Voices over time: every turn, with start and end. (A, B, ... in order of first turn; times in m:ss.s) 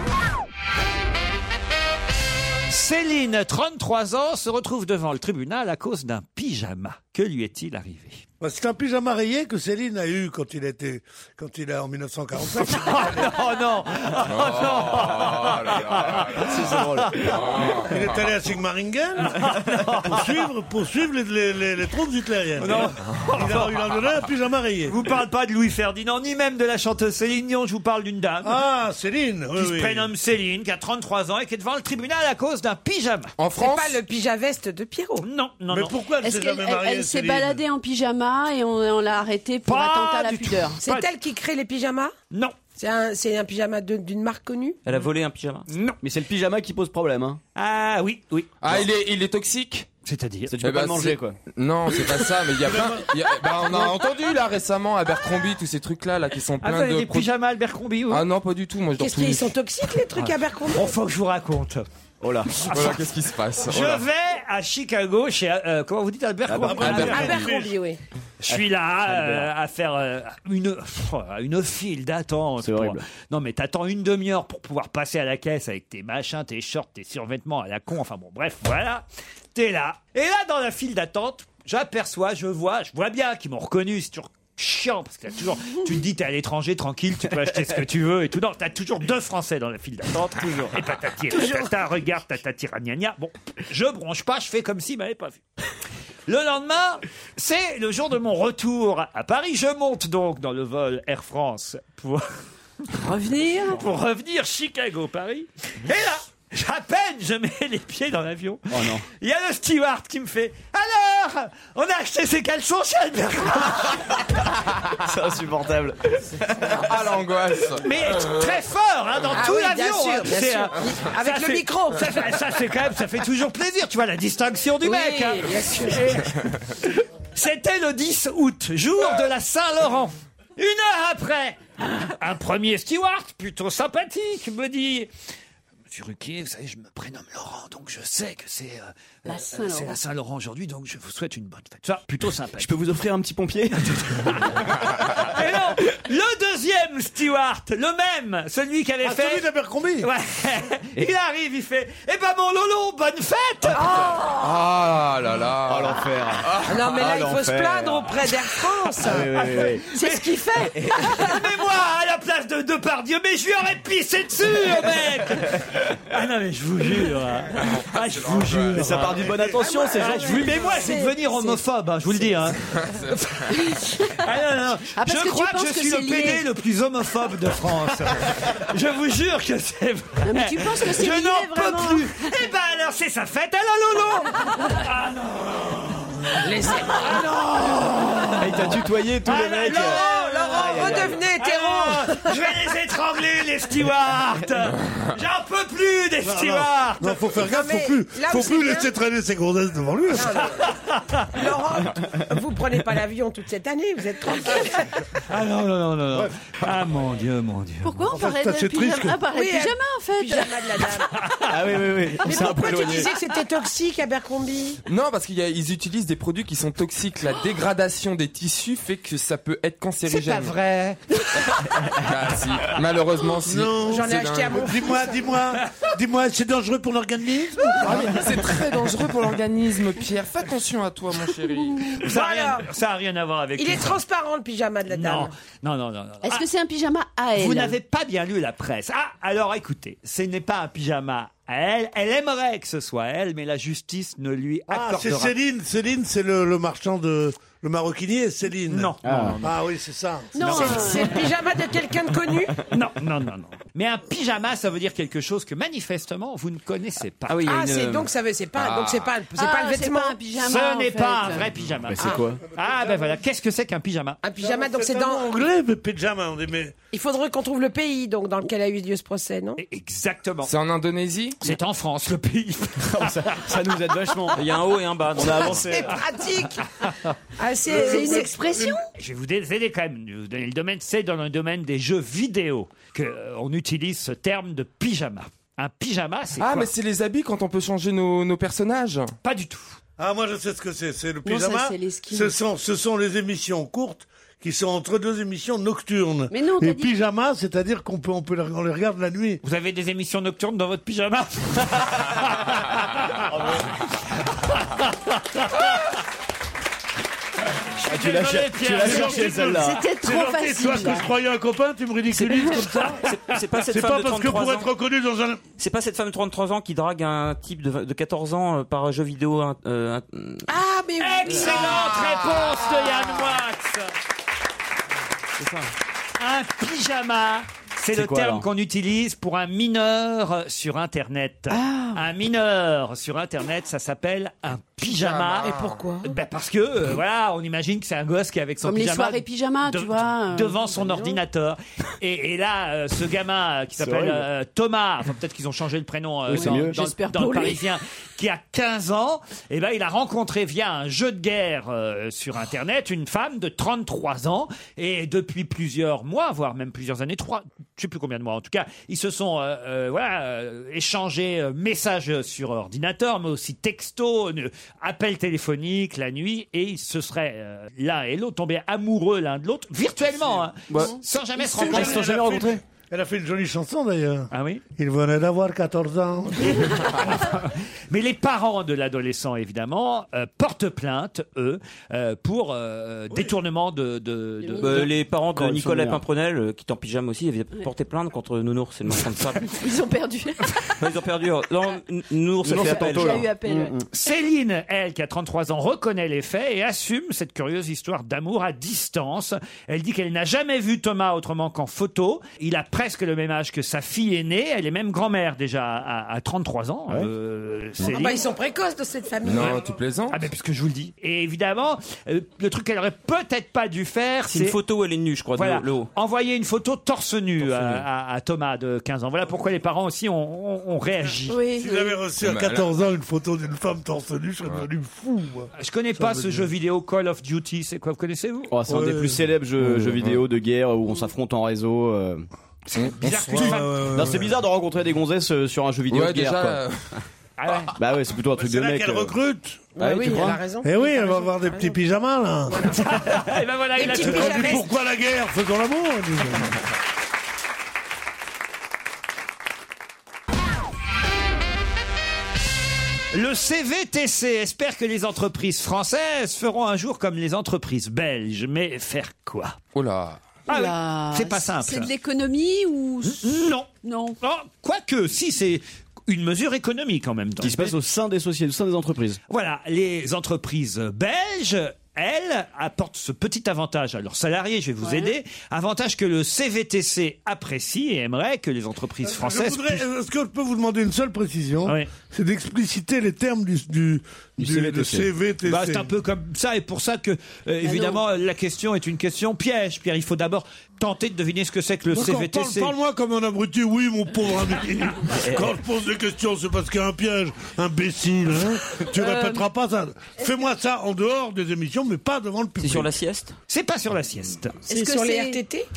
0:02.7-0:08.2 A
0:08.4-0:13.3 B
0:12.6-0:17.7 A
0:14.2-0:16.5 C
0:16.3-0:17.4 D
0:17.2-0:18.1 C
0:17.8-0:19.4 B
0:19.2-0:20.4 A
0:20.0-0:25.0 B
0:22.6-0:23.8 A
0:24.9-0:28.6 A
0:28.4-0:30.1 B
0:29.6-0:33.3 A
0:33.4-0:34.0 C
0:33.5-0:35.2 E
0:35.2-0:35.9 A
0:35.7-0:37.6 B
0:36.2-0:40.8 F
0:39.6-0:41.1 A
0:40.8-0:42.1 E
0:42.8-0:44.8 E
0:44.8-0:45.7 G
0:45.7-0:46.0 A
0:46.0-0:47.4 D
0:47.6-0:48.5 A
0:48.6-0:49.9 C
0:50.0-0:50.5 A
0:50.5-0:51.4 D
0:50.6-0:57.3 C
0:52.7-0:53.1 B
0:56.6-0:58.2 A
0:58.1-0:59.6 C
0:59.0-1:01.0 E
1:00.2-1:01.8 A
1:02.2-1:02.7 D
1:02.6-1:03.0 A
1:02.7-1:04.0 C
1:03.6-1:07.4 A
1:06.5-1:07.2 D
1:06.6-1:07.8 B
1:06.8-1:07.3 C
1:07.0-1:08.0 E
1:08.4-1:35.4 A
1:08.5-1:09.5 D
1:12.6-1:13.0 D
1:30.4-1:30.7 D
1:36.3-1:42.3 A
1:43.0-1:43.8 F
1:43.7-1:54.3 A
1:48.7-1:49.0 D
1:55.0-1:56.9 D
1:56.7-1:58.6 C
1:57.8-2:15.1 A
1:59.3-2:02.3 E
2:04.8-2:06.2 E
2:15.9-2:22.7 A
2:19.2-2:20.0 F
2:22.6-2:24.9 D
2:23.9-2:29.4 A
2:29.0-2:30.1 B
2:30.0-2:34.0 A
2:34.2-2:36.8 C
2:35.7-2:38.2 D
2:36.6-2:39.3 E
2:39.0-2:39.8 D
2:39.4-2:49.2 A
2:39.9-2:40.8 F
2:40.8-2:41.0 D
2:47.5-2:49.0 C
2:48.8-2:51.0 D
2:49.6-2:51.6 E
2:49.9-3:17.1 A
2:52.6-2:53.4 C
2:53.6-2:54.2 F
2:54.9-2:56.5 F
3:00.2-3:02.4 F
3:06.4-3:07.4 E
3:08.4-3:11.2 D
3:09.7-3:12.4 E
3:16.2-3:20.4 B
3:17.3-3:18.9 E
3:20.1-3:20.7 E
3:20.6-3:21.3 A
3:21.3-3:25.0 E
3:25.3-3:28.0 A
3:27.8-3:30.6 F
3:28.1-3:29.2 B
3:29.3-3:31.1 E
3:31.5-3:33.1 D
3:32.2-3:34.8 E
3:32.4-3:33.1 F
3:34.8-3:40.6 C
3:40.4-3:41.0 A
3:42.0-3:44.7 C
3:43.4-3:48.1 B
3:43.8-3:45.2 E
3:47.8-3:52.0 C
3:52.0-3:52.7 E
3:52.0-3:54.0 A
3:53.6-3:55.3 E
3:54.9-3:56.4 A
3:56.2-3:57.8 F
3:57.4-4:05.3 A
4:04.7-4:10.4 B
4:08.7-4:09.4 A
4:09.0-4:09.5 D
4:10.3-4:11.3 F
4:10.4-4:11.1 A
4:10.4-4:12.6 E
4:12.7-4:17.4 A
4:17.3-4:18.1 D
4:17.4-4:20.2 E
4:18.6-4:19.1 C
4:19.3-4:21.5 F
4:20.4-4:24.2 A
4:21.9-4:22.4 D
4:22.6-4:23.2 B
4:24.2-4:25.3 E
4:24.4-4:26.8 B
4:26.9-4:29.6 E
4:29.6-4:30.5 A
4:30.4-4:31.4 C
4:31.4-4:33.4 A
4:32.8-4:34.5 D
4:34.3-4:35.7 G
4:35.1-4:36.0 D
4:35.6-4:36.7 E
4:37.4-4:38.6 E
4:37.7-4:38.8 F
4:39.0-4:46.7 A
4:46.4-4:49.2 C
4:49.2-4:49.8 A
4:50.0-4:59.4 B
4:51.2-4:52.3 F
4:56.3-4:57.0 F
4:59.4-5:03.2 A
5:04.4-5:05.8 A
5:07.8-5:09.5 A
5:07.8-5:09.9 D
5:08.8-5:13.0 B
5:09.6-5:11.1 F
5:12.2-5:12.6 F
5:13.0-5:14.7 G
5:13.6-5:15.4 B
5:15.6-5:20.5 G
5:20.5-5:22.2 E
5:21.0-5:23.9 A
5:25.4-5:25.7 D
5:26.2-6:12.1 A
5:27.9-5:28.4 D
5:31.5-5:32.0 F
5:35.3-5:36.1 E
5:35.4-5:35.7 C
5:38.6-5:40.8 F
5:40.8-5:41.2 E
5:43.8-5:44.2 D
5:46.3-5:46.8 D
5:46.3-5:47.6 F
6:11.5-6:12.6 D
6:11.6-6:16.7 B
6:14.3-6:14.6 A
6:16.4-6:24.8 A
6:24.4-6:24.7 F
6:24.6-6:29.6 G
6:24.7-6:26.0 D
6:29.5-6:30.7 F
6:30.8-6:33.3 G
6:32.4-6:33.8 D
6:32.5-6:33.8 F
6:33.9-6:48.2 A
6:47.8-6:49.6 E
6:49.2-6:50.2 C
6:50.1-6:54.6 A
6:54.3-6:55.9 G
6:55.4-7:01.4 A
7:01.3-7:02.0 F
7:01.5-7:06.5 B
7:02.2-7:02.7 C
7:05.5-7:08.5 A
7:08.5-7:12.3 D
7:08.7-7:09.3 B
7:09.6-7:10.2 C
7:12.7-7:13.7 A
7:12.8-7:13.6 C
7:13.3-7:14.4 B
7:13.9-7:16.6 D
7:15.9-7:16.9 C
7:17.4-7:17.7 A
7:17.8-7:19.2 D
7:18.3-7:19.8 B
7:19.8-7:21.8 E
7:19.8-7:20.4 D
7:20.6-7:22.9 B
7:22.5-7:23.1 E
7:22.8-7:24.6 A
7:23.8-7:24.7 E
7:23.9-7:26.6 B
7:33.1-7:39.6 A
7:39.7-7:40.2 C
7:40.5-7:41.9 A
7:40.5-7:44.2 F
7:43.0-7:43.7 A
7:44.2-7:47.8 A
7:47.4-7:49.2 D
7:49.3-7:59.8 A
7:54.8-7:55.1 F
7:59.0-8:05.9 B
8:01.6-8:01.9 A
8:04.4-8:05.1 D
8:05.4-8:12.7 A
8:07.6-8:08.0 F
8:11.9-8:22.9 B
8:15.2-8:15.5 G
8:19.0-8:19.4 F
8:22.6-8:23.4 G
8:23.5-8:24.6 A
8:24.7-8:25.4 F
8:24.7-8:25.7 E